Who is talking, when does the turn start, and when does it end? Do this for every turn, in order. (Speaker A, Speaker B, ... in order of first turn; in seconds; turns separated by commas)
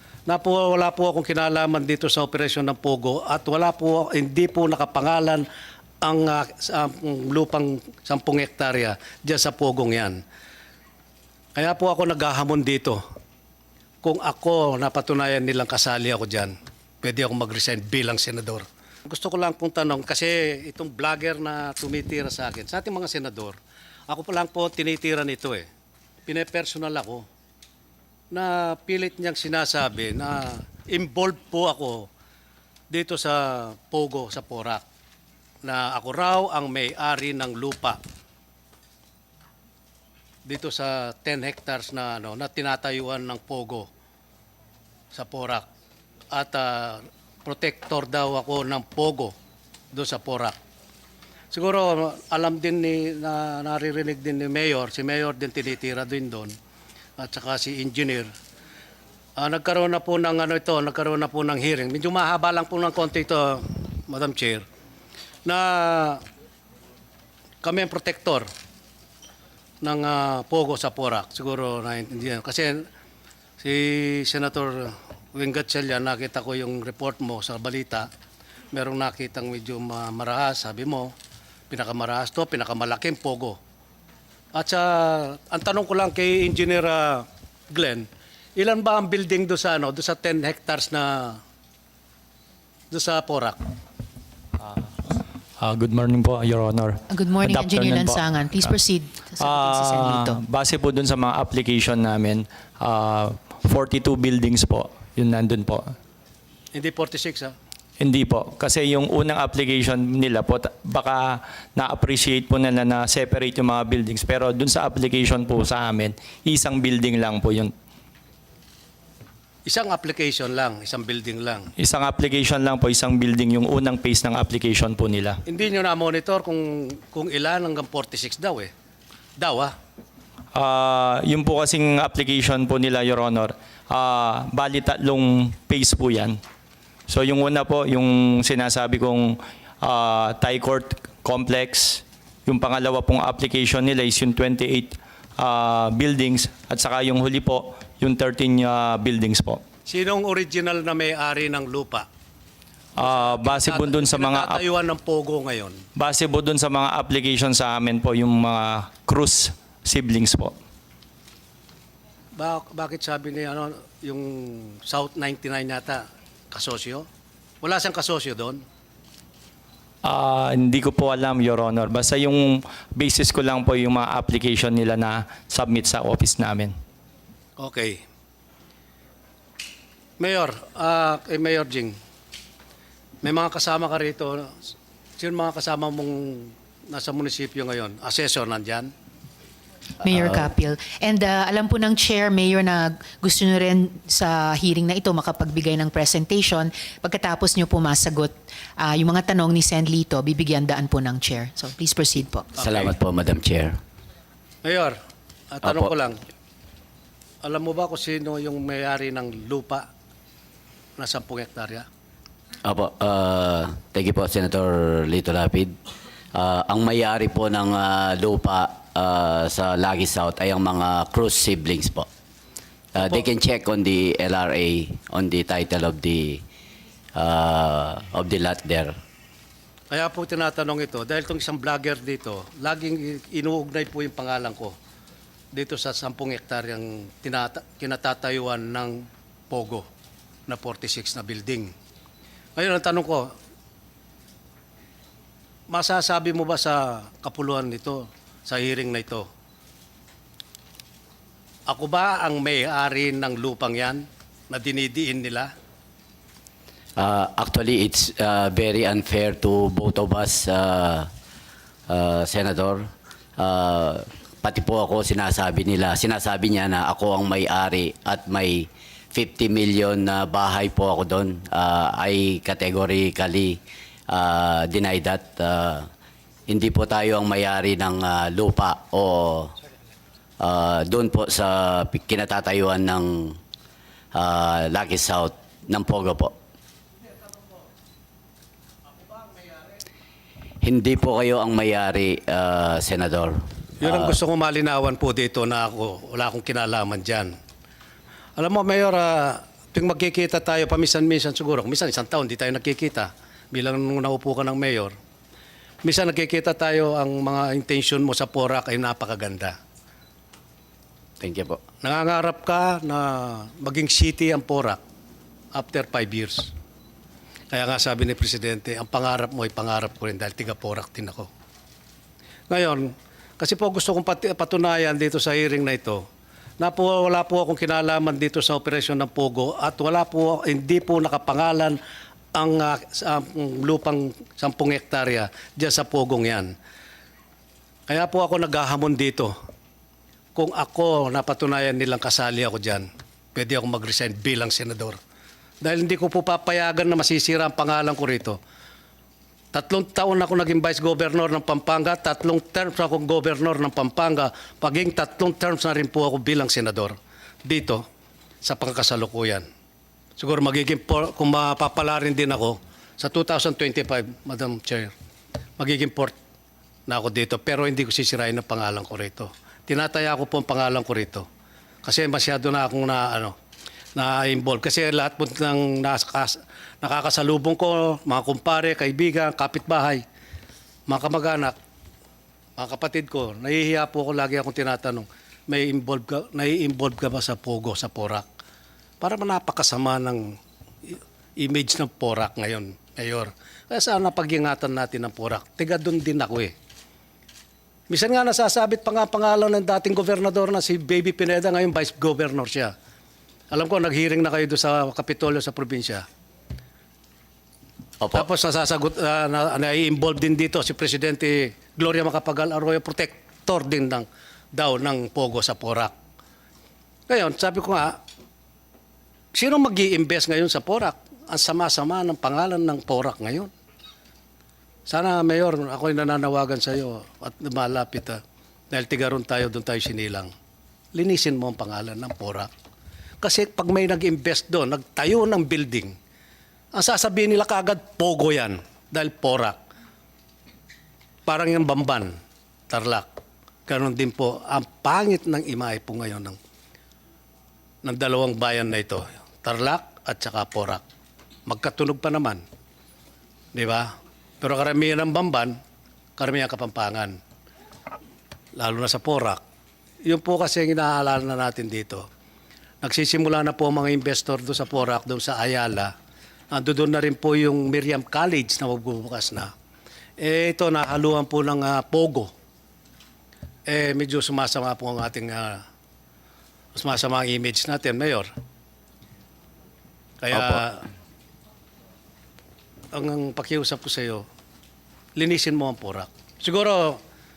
Speaker A: 0.3-5.5, Speaker A: 6.0-10.2, Speaker A: 11.5-13.0, Speaker A: 14.0-25.7, Speaker A: 26.3-27.2, Speaker A: 28.3-32.1, Speaker A: 32.9-34.8, Speaker A: 35.6-38.0, Speaker A: 40.4-43.9, Speaker A: 45.1-45.6, Speaker A: 46.3-49.3, Speaker A: 49.9-50.5, Speaker A: 51.5-56.5, Speaker A: 57.2-58.3, Speaker A: 59.4-64.6, Speaker A: 65.4-66.2, Speaker A: 67.6-68.5, Speaker A: 69.8-72.8, Speaker A: 73.6-78.1, Speaker A: 78.7-81.1, Speaker A: 81.7-83.6, Speaker A: 84.5-91.4, Speaker A: 92.9-93.6, Speaker B: 95.2-98.7, Speaker C: 97.1-100.4, Speaker B: 99.4-105.9, Speaker A: 106.7-107.5, Speaker B: 108.0-117.7, Speaker A: 119.7-121.7, Speaker B: 121.8-125.4, Speaker A: 125.5-128.7, Speaker A: 129.4-129.7, Speaker B: 130.5-136.4, Speaker B: 137.1-149.6, Speaker A: 149.9-152.1, Speaker B: 152.9-154.6, Speaker A: 153.0-155.8, Speaker B: 155.9-160.5, Speaker A: 162.3-167.1, Speaker A: 167.6-168.6, Speaker B: 170.0-176.7, Speaker A: 177.6-178.0, Speaker A: 180.2-181.9, Speaker A: 183.2-184.6, Speaker A: 185.2-188.9, Speaker C: 190.0-202.5, Speaker D: 190.0-190.5, Speaker D: 202.6-203.8, Speaker A: 204.6-204.9, Speaker A: 205.5-206.2, Speaker D: 205.6-205.9, Speaker A: 207.4-209.9, Speaker A: 211.0-211.8, Speaker D: 212.6-215.7, Speaker D: 216.3-222.1, Speaker D: 222.9-226.4, Speaker A: 223.0-223.2, Speaker D: 227.2-228.9, Speaker A: 229.9-234.7, Speaker A: 235.5-239.8, Speaker A: 240.5-241.7, Speaker A: 242.6-243.3, Speaker A: 245.7-249.3, Speaker A: 251.7-255.5, Speaker D: 257.0-261.1, Speaker D: 261.9-275.9, Speaker D: 276.5-279.5, Speaker D: 280.4-283.4, Speaker D: 284.1-286.3, Speaker D: 290.6-294.2, Speaker A: 293.8-297.3, Speaker A: 298.4-304.9, Speaker A: 305.8-309.6, Speaker D: 311.2-311.6, Speaker A: 311.8-314.8, Speaker A: 315.5-316.5, Speaker A: 317.5-321.3, Speaker A: 322.5-326.0, Speaker A: 326.6-331.8, Speaker A: 332.3-336.5, Speaker A: 337.9-339.3, Speaker A: 340.3-345.0, Speaker A: 345.6-348.4, Speaker A: 349.5-357.8, Speaker A: 358.4-359.4, Speaker A: 360.2-364.9, Speaker A: 365.6-366.1, Speaker A: 366.9-371.2, Speaker A: 371.8-373.3, Speaker A: 373.9-380.0, Speaker A: 380.9-381.5, Speaker A: 382.6-388.2, Speaker A: 389.0-396.5, Speaker A: 397.9-402.7, Speaker A: 403.5-406.0, Speaker D: 408.0-408.3, Speaker A: 408.1-415.9, Speaker A: 417.1-418.0, Speaker A: 419.3-423.5, Speaker A: 424.9-428.2, Speaker A: 428.7-430.3, Speaker A: 430.9-432.5, Speaker A: 433.2-435.9, Speaker A: 436.7-439.6, Speaker A: 441.3-442.1, Speaker A: 442.7-443.1, Speaker A: 443.7-446.4, Speaker A: 447.8-450.8, Speaker A: 451.5-452.4, Speaker A: 453.5-455.5, Speaker A: 456.2-457.2, Speaker A: 458.6-459.4, Speaker A: 460.1-462.0, Speaker A: 462.8-465.9, Speaker A: 466.5-469.5, Speaker A: 470.2-472.3, Speaker A: 473.7-475.6, Speaker A: 476.7-478.3, Speaker A: 480.2-480.9, Speaker A: 482.9-484.2, Speaker A: 485.1-487.0